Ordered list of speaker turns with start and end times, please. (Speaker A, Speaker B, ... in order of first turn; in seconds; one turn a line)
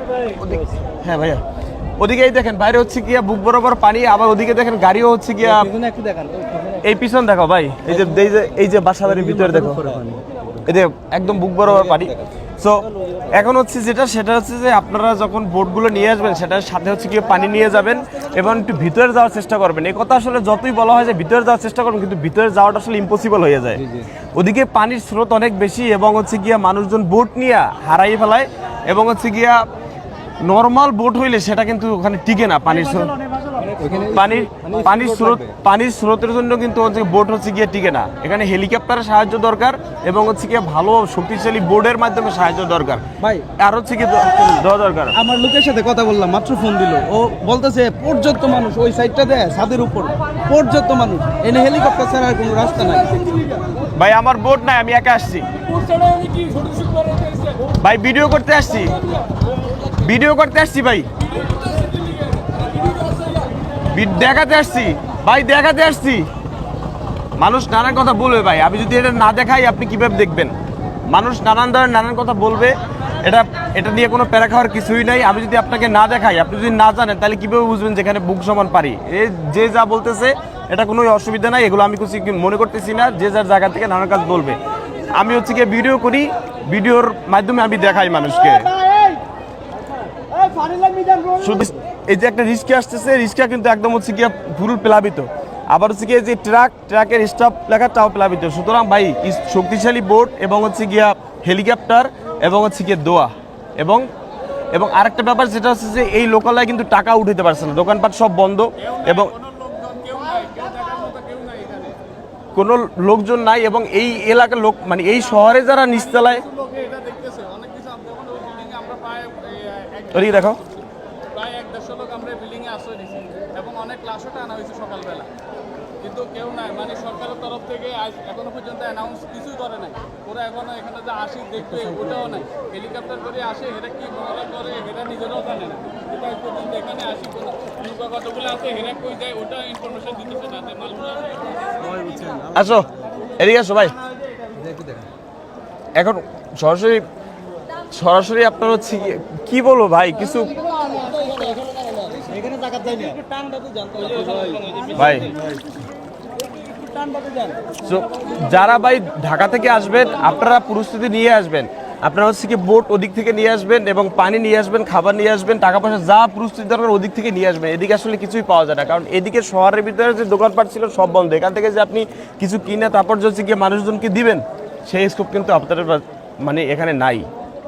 Speaker A: 0.2-1.4
Speaker A: 2.0-5.7
Speaker B: 5.6-6.4
Speaker A: 6.8-10.0
Speaker B: 9.5-10.2
Speaker A: 10.6-23.8
Speaker A: 24.3-29.6
Speaker A: 30.4-33.1
Speaker B: 33.6-35.5
Speaker A: 34.0-43.0
Speaker B: 43.2-43.5
Speaker A: 43.5-45.1
Speaker B: 45.1-53.6
Speaker A: 53.9-55.5
Speaker C: 55.8-57.6
Speaker A: 57.8-59.0
Speaker A: 59.9-61.1
Speaker C: 61.4-63.5
Speaker A: 63.9-66.3
Speaker A: 67.4-70.5
Speaker A: 71.1-84.6
Speaker A: 85.1-88.8
Speaker B: 90.4-91.4
Speaker A: 91.4-104.0
Speaker A: 104.7-109.3
Speaker C: 108.8-112.0
Speaker A: 112.5-116.4
Speaker C: 116.4-120.7
Speaker A: 120.1-120.6
Speaker C: 121.3-125.3
Speaker C: 126.0-141.6
Speaker B: 132.0-132.4
Speaker B: 141.8-142.9
Speaker A: 142.5-143.9
Speaker B: 144.7-144.9
Speaker A: 145.9-147.0
Speaker A: 147.9-150.6
Speaker B: 150.8-155.3
Speaker A: 154.9-155.3
Speaker B: 156.5-157.6
Speaker A: 157.8-177.3